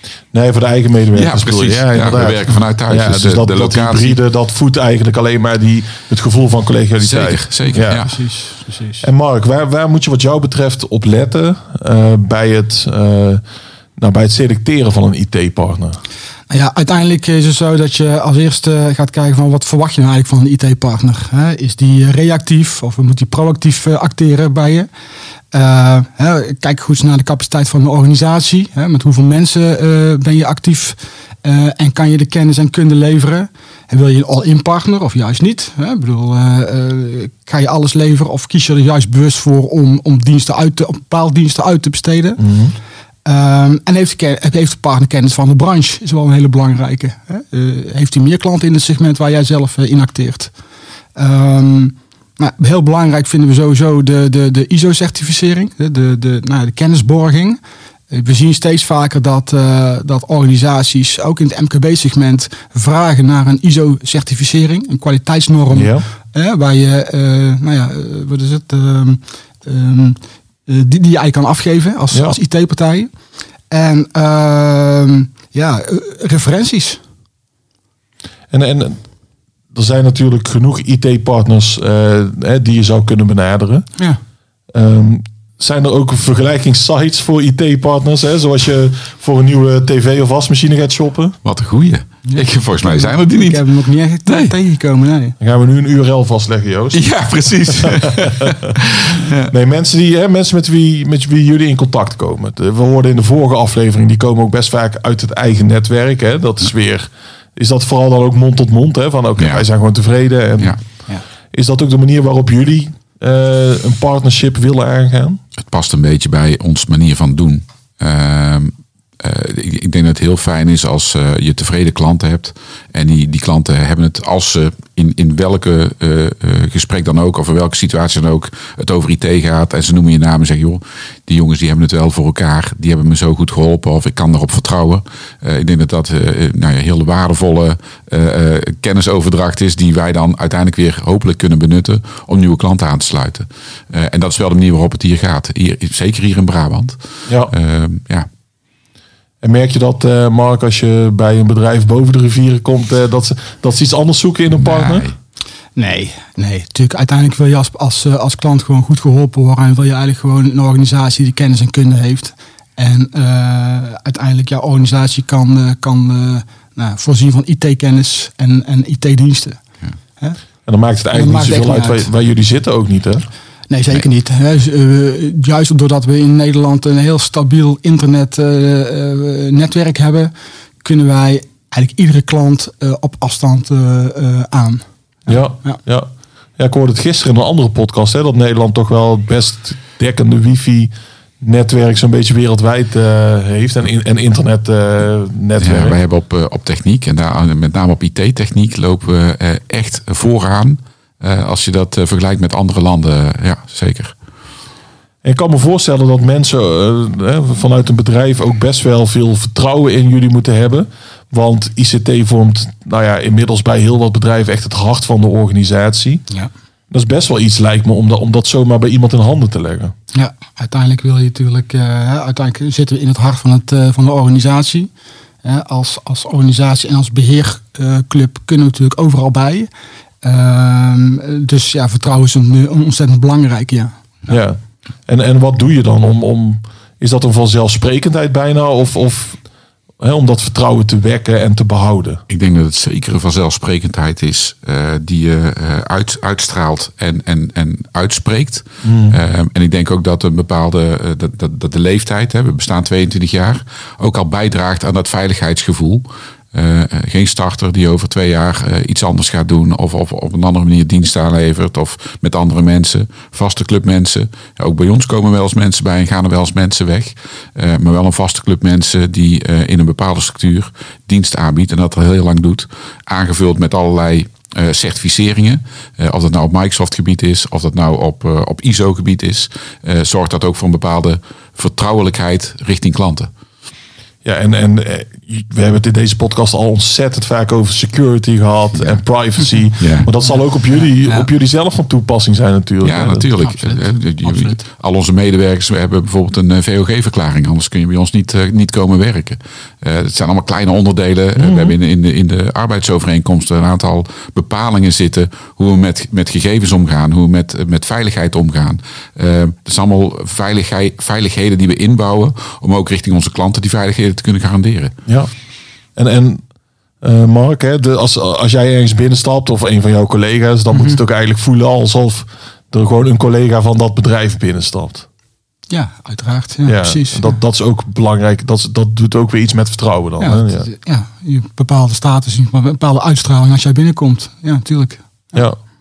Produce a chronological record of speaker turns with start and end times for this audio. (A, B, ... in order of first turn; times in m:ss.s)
0:00.3-0:08.0 A
0:01.2-0:04.2 B
0:07.0-0:08.2 B
0:07.7-0:09.1 C
0:09.0-0:13.4 A
0:14.0-0:16.0 A
0:16.5-0:24.9 C
0:25.5-0:42.4 C
0:42.4-0:42.8 A
0:43.2-0:50.5 C
0:51.2-0:57.6 C
0:58.1-1:13.1 C
1:05.7-1:06.0 A
1:12.1-1:12.4 A
1:13.7-1:17.0 C
1:18.5-1:19.0 A
1:19.7-1:23.8 A
1:24.7-1:31.4 A
1:31.4-1:33.7 B
1:32.3-1:35.4 C
1:34.3-1:34.6 B
1:35.4-1:37.1 A
1:36.9-1:39.5 B
1:37.7-1:38.1 A
1:39.5-1:50.8 A
1:49.4-1:49.6 B
1:51.5-1:55.4 A
1:55.6-2:27.0 B
2:27.3-2:27.5 A
2:27.5-2:28.3 B
2:29.4-2:35.1 A
2:34.5-2:35.1 B
2:35.8-2:49.6 C
2:50.7-2:53.3 A
2:51.1-2:52.1 C
2:53.7-3:05.8 C
3:05.3-3:16.0 A
3:15.6-3:24.2 B
3:25.2-3:36.2 A
3:36.9-3:39.9 A
3:40.1-3:44.9 C
3:45.4-3:49.7 C
3:50.2-3:54.0 C
3:54.3-3:59.4 A
4:00.0-4:02.2 A
4:02.3-4:43.3 B
4:08.8-4:09.2 A
4:44.2-4:53.3 A
4:49.8-4:50.1 B
4:51.0-4:51.3 C
4:52.8-5:14.9 B
4:53.4-4:54.6 C
5:01.4-5:01.8 A
5:16.0-5:16.4 A
5:17.0-5:25.1 A
5:20.7-5:21.0 C
5:25.7-5:27.3 C
5:26.7-5:30.7 A
5:30.2-5:35.4 C